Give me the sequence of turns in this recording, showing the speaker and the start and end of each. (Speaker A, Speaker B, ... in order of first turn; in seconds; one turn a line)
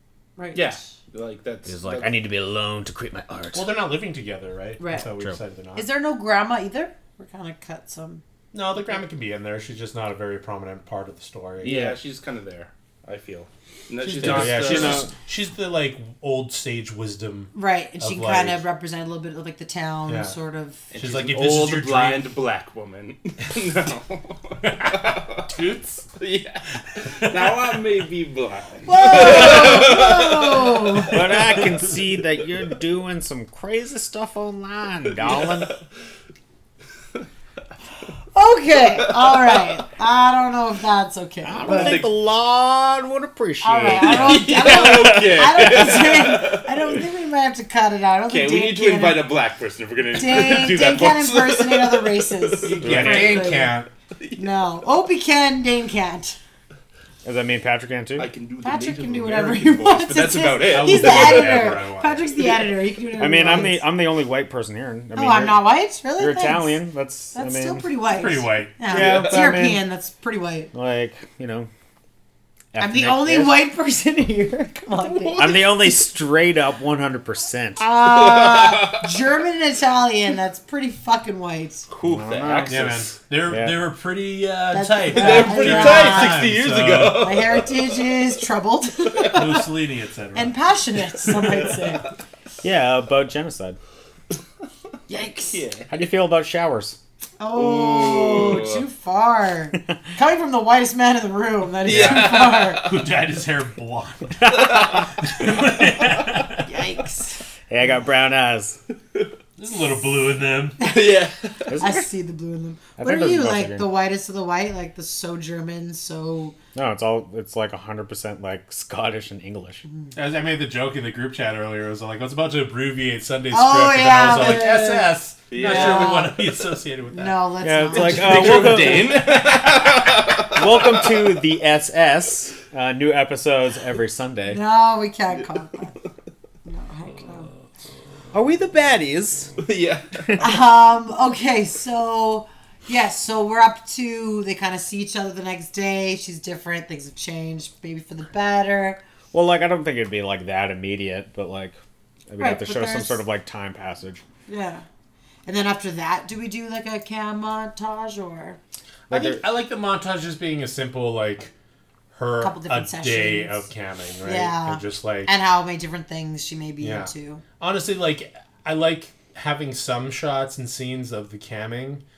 Speaker A: 0.4-0.8
Speaker B: 0.5-2.2
Speaker C: 1.7-3.7
Speaker D: 3.5-5.9
Speaker A: 4.8-5.1
Speaker A: 5.8-8.2
Speaker D: 8.5-11.8
Speaker B: 11.6-15.1
Speaker C: 11.6-12.0
Speaker C: 14.0-15.1
Speaker D: 14.1-18.6
Speaker A: 17.5-20.8
Speaker D: 20.1-20.4
Speaker B: 20.9-25.5
Speaker D: 21.0-22.2
Speaker D: 24.6-26.1
Speaker B: 26.2-31.2
Speaker A: 28.9-31.2
Speaker C: 31.1-35.8
Speaker B: 35.2-35.7
Speaker A: 38.3-42.0
Speaker C: 41.4-45.9
Speaker B: 41.6-42.2
Speaker A: 43.6-49.3
Speaker B: 44.0-47.0
Speaker B: 48.3-54.6
Speaker A: 50.1-53.8
Speaker D: 52.6-53.9
Speaker C: 52.8-53.2
Speaker A: 54.4-56.4
Speaker C: 57.2-58.3
Speaker B: 58.2-61.8
Speaker A: 58.6-63.9
Speaker D: 60.7-62.3
Speaker C: 63.2-65.7
Speaker A: 65.2-66.8
Speaker C: 66.2-67.9
Speaker A: 67.3-70.7
Speaker D: 68.1-68.8
Speaker C: 68.9-69.8
Speaker B: 68.9-69.4
Speaker C: 70.7-71.7
Speaker C: 72.7-73.6
Speaker A: 72.8-75.8
Speaker B: 75.0-75.7
Speaker C: 75.4-77.9
Speaker A: 77.8-81.9
Speaker B: 78.1-79.1
Speaker B: 81.9-83.1
Speaker C: 82.0-83.8
Speaker D: 82.7-87.3
Speaker A: 84.7-86.5
Speaker B: 85.1-88.3
Speaker A: 87.1-89.7
Speaker D: 89.3-90.6
Speaker A: 90.3-92.1
Speaker B: 91.2-92.0
Speaker C: 92.6-93.8
Speaker A: 95.1-95.7
Speaker B: 95.5-95.9
Speaker C: 95.9-97.0
Speaker A: 97.4-102.9
Speaker B: 97.5-98.8
Speaker B: 101.9-103.0
Speaker D: 101.9-106.8
Speaker A: 106.6-107.4
Speaker C: 107.7-108.8
Speaker D: 109.6-110.9
Speaker B: 110.8-111.8
Speaker A: 110.8-111.1
Speaker C: 111.7-112.1
Speaker A: 111.8-116.5
Speaker C: 113.0-113.9
Speaker C: 116.8-119.8
Speaker D: 120.1-127.4
Speaker A: 123.5-126.4
Speaker B: 124.3-124.8
Speaker B: 125.5-126.6
Speaker A: 127.1-128.8
Speaker C: 127.6-134.6
Speaker B: 127.9-131.3
Speaker A: 134.5-136.0
Speaker A: 136.7-137.5
Speaker C: 138.3-139.5
Speaker B: 139.6-140.6
Speaker A: 140.4-149.0
Speaker C: 149.3-151.8
Speaker C: 152.3-154.2
Speaker A: 152.4-153.2
Speaker A: 154.5-154.8
Speaker A: 155.5-158.6
Speaker C: 159.1-159.4
Speaker D: 159.1-161.5
Speaker D: 162.1-165.3
Speaker A: 162.4-163.7
Speaker A: 164.2-167.4
Speaker D: 166.8-172.0